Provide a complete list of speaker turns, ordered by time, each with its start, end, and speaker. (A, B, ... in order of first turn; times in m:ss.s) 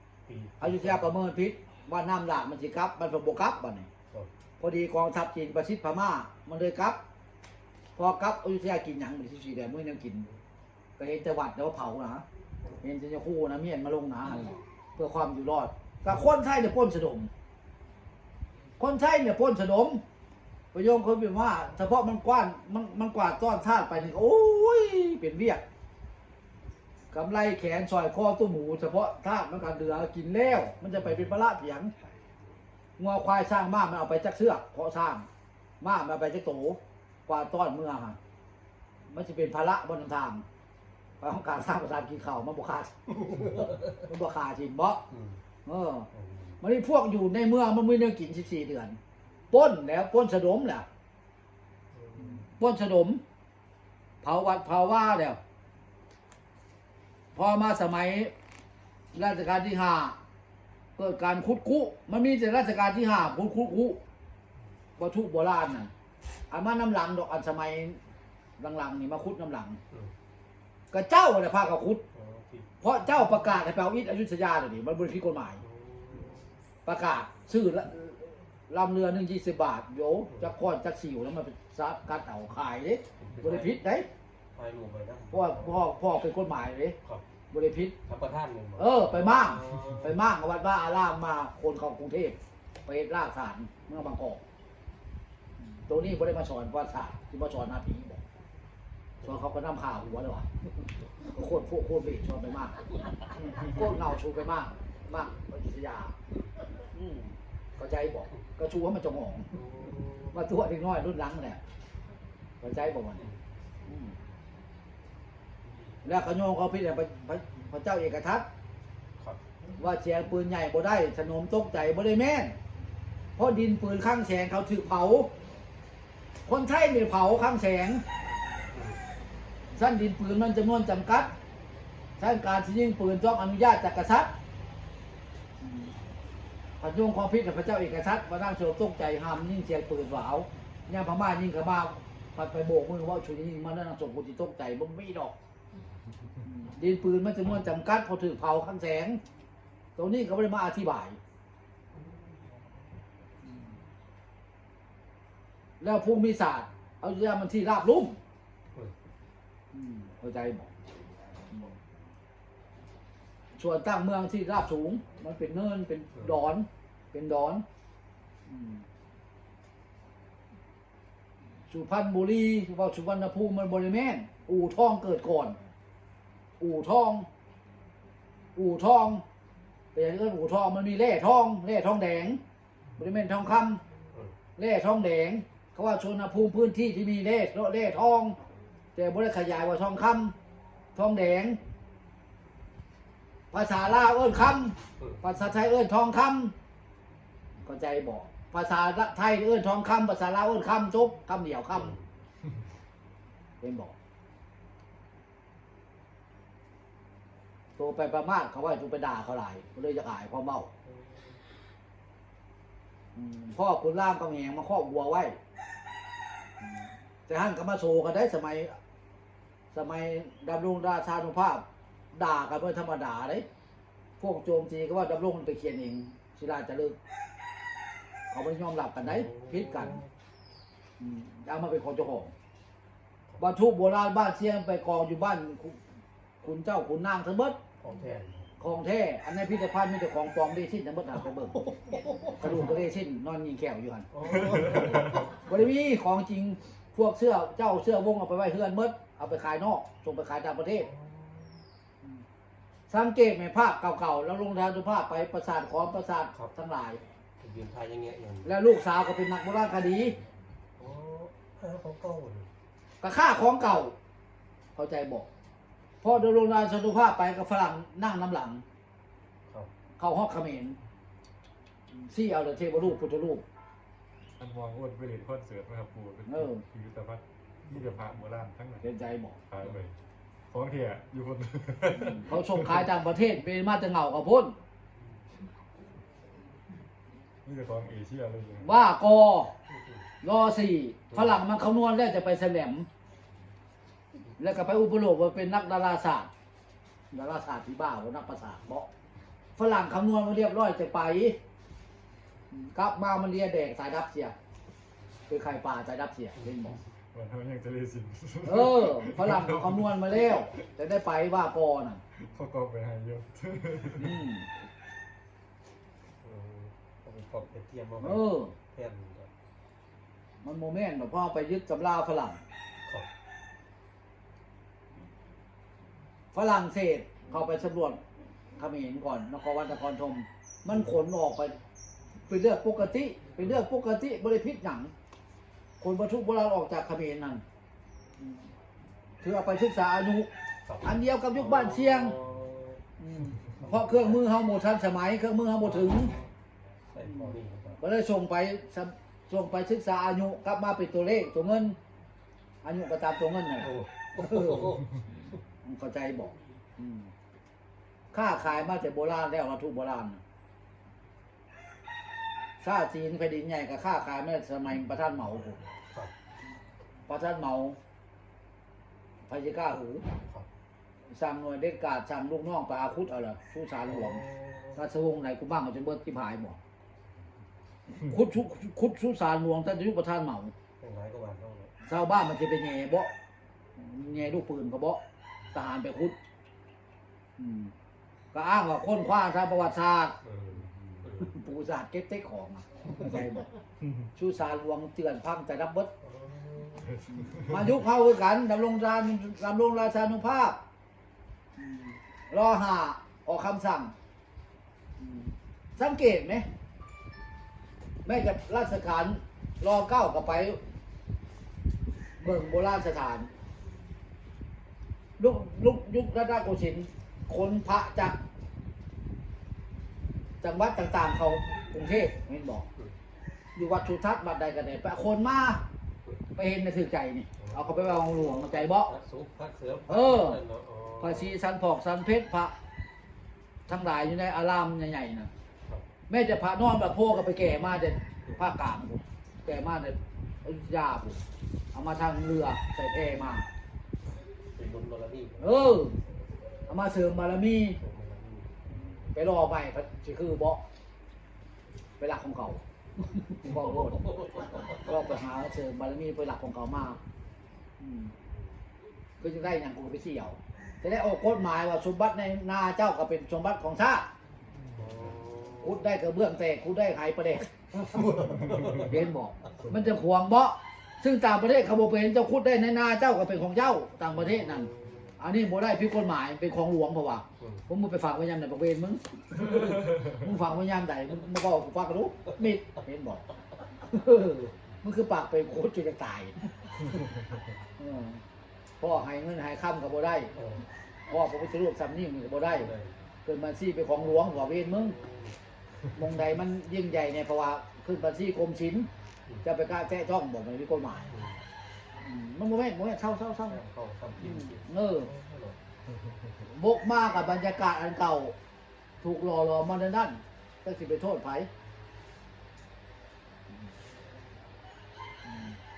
0:00.2-0:01.1 A
0:00.6-0:03.9 B
0:04.6-0:07.0 B
0:08.0-0:10.3 B
0:11.0-0:12.2 B
0:12.8-0:17.3 B
0:18.8-0:20.0 B
0:20.7-0:25.6 B
0:27.1-0:31.9 B
0:33.0-0:35.3 B
0:35.8-0:38.2 B
0:39.1-0:40.4 B
0:41.2-0:45.0 B
0:43.2-0:43.8 A
0:45.1-0:45.4 A
0:45.6-0:46.1 B
0:46.1-0:46.6 A
0:46.6-0:49.0 B
0:49.5-0:50.8 B
0:51.9-0:52.4 A
0:52.2-0:53.2 B
0:54.2-0:55.4 B
0:57.3-0:58.3 B
0:59.1-1:00.2 B
1:01.0-1:04.0 B
1:05.0-1:05.9 B
1:06.5-1:08.0 B
1:08.6-1:09.8 B
1:10.9-1:12.0 B
1:12.1-1:12.7 A
1:12.8-1:15.6 B
1:15.6-1:16.4 A
1:16.8-1:24.1 B
1:23.2-1:23.8 A
1:24.5-1:25.9 A
1:25.3-1:27.0 B
1:27.5-1:28.0 B
1:28.0-1:30.2 A
1:28.8-1:34.4 B
1:35.8-1:38.2 B
1:39.2-1:39.5 A
1:39.2-1:40.5 B
1:41.3-1:42.8 B
1:43.4-1:46.1 B
1:46.9-1:49.5 B
1:49.5-1:50.4 A
1:50.3-1:51.6 B
1:52.6-1:53.2 B
1:53.1-1:53.4 A
1:53.8-1:54.2 B
1:56.0-1:58.5 B
1:59.8-2:02.6 B
2:03.4-2:05.3 B
2:06.4-2:08.0 B
2:08.7-2:09.0 A
2:09.7-2:11.3 B
2:12.2-2:14.3 B
2:15.6-2:15.9 B
2:16.8-2:25.3 B
2:26.4-2:29.2 B
2:30.0-2:31.2 B
2:35.8-2:38.2 B
2:39.7-2:40.7 B
2:41.5-2:41.8 B
2:43.6-2:47.6 B
2:48.5-2:48.8 B
2:51.7-2:55.6 B
2:56.6-2:57.3 B
2:58.6-2:59.2 B
2:59.9-3:02.4 B
3:03.0-3:03.8 B
3:04.6-3:08.4 B
3:09.0-3:10.3 B
3:11.0-3:11.6 B
3:13.5-3:16.5 B
3:17.6-3:22.0 B
3:21.7-3:22.0 A
3:23.6-3:23.9 B
3:27.8-3:30.7 B
3:30.8-3:31.2 A
3:33.1-3:35.4 B
3:36.6-3:38.8 B
3:39.7-3:43.4 B
3:44.2-3:47.0 B
3:48.3-3:50.0 B
3:49.0-3:50.1 A
3:51.0-3:52.3 B
3:53.4-3:55.8 B
3:56.4-3:57.6 B
3:57.8-3:58.5 A
3:58.6-4:01.7 B
4:01.5-4:02.6 A
4:02.4-4:04.1 B
4:04.1-4:05.4 A
4:05.4-4:10.9 B
4:10.8-4:11.6 A
4:12.9-4:17.0 B
4:17.4-4:18.5 A
4:18.4-4:20.2 B
4:20.8-4:22.5 A
4:23.0-4:23.9 B
4:24.7-4:25.3 B
4:26.0-4:28.6 B
4:30.0-4:30.8 B
4:31.9-4:33.4 B
4:34.4-4:38.9 C
4:36.3-4:36.6 B
4:38.8-4:39.4 B
4:39.5-4:40.0 C
4:40.5-4:42.9 C
4:41.9-4:44.5 B
4:47.4-4:48.8 C
4:48.6-4:49.5 B
4:49.7-4:50.0 A
4:50.2-4:52.9 B
4:51.1-4:51.4 A
4:54.4-4:56.3 B
4:57.1-4:58.9 B
4:59.6-5:01.4 B
5:02.5-5:04.3 B
5:05.3-5:06.8 B
5:07.1-5:10.1 C
5:08.4-5:12.0 B
5:12.2-5:14.2 C
5:14.0-5:14.5 B
5:16.2-5:19.3 A
5:18.0-5:18.5 B
5:20.4-5:22.4 B
5:26.3-5:28.0 B
5:28.6-5:31.6 B
5:32.3-5:34.9 B
5:35.8-5:37.4 B
5:39.2-5:40.3 B
5:40.6-5:42.8 A
5:40.8-5:42.2 B
5:43.0-5:46.1 B
5:43.5-5:44.2 A
5:45.6-5:46.3 A
5:46.9-5:47.8 A
5:47.0-5:51.8 B
5:52.6-5:54.8 B
5:53.6-5:55.0 A
5:55.6-5:57.1 B
5:58.1-6:00.2 B
6:02.6-6:05.6 B
6:07.1-6:07.8 B
6:09.3-6:10.0 B
6:11.1-6:14.2 B
6:13.8-6:14.8 A
6:14.7-6:16.6 B
6:17.9-6:20.5 B
6:20.8-6:21.7 A
6:21.8-6:23.1 B
6:23.8-6:25.0 B
6:25.5-6:26.2 B
6:27.4-6:27.7 B
6:28.3-6:30.2 B
6:30.2-6:31.3 A
6:31.2-6:33.5 B
6:33.8-6:34.1 C
6:34.2-6:35.9 B
6:36.0-6:37.0 A
6:37.0-6:37.8 C
6:37.1-6:40.6 B
6:41.6-6:43.9 B
6:45.0-6:46.4 B
6:48.0-6:50.6 B
6:52.2-6:53.3 B
6:55.2-6:58.2 B
7:00.4-7:02.6 B
7:03.6-7:05.6 B
7:06.4-7:08.9 B
7:07.4-7:11.4 A
7:09.9-7:10.4 B
7:11.0-7:12.5 B
7:13.7-7:15.3 B
7:16.1-7:21.2 B
7:21.7-7:23.4 B
7:24.5-7:25.9 A
7:25.4-7:26.0 B
7:26.7-7:27.8 B
7:27.7-7:28.6 A
7:28.7-7:30.6 B
7:32.0-7:34.0 B
7:33.4-7:35.0 A
7:34.7-7:37.0 B
7:37.8-7:38.1 B
7:39.2-7:44.1 B
7:44.7-7:45.8 A
7:45.6-8:03.2 B
7:47.9-7:49.0 A
7:54.1-7:55.2 A
7:57.4-7:57.6 A
8:03.8-8:06.5 B
8:07.8-8:08.2 B
8:08.8-8:10.3 B
8:10.3-8:10.6 A
8:11.1-8:12.7 B
8:12.4-8:12.9 A
8:13.2-8:15.0 B
8:14.0-8:15.4 A
8:15.9-8:18.9 B
8:19.4-8:21.1 B
8:21.1-8:21.4 A
8:22.0-8:23.6 B
8:23.5-8:25.6 A
8:24.2-8:25.1 B
8:26.5-8:28.3 B
8:29.0-8:31.5 B
8:35.3-8:35.5 B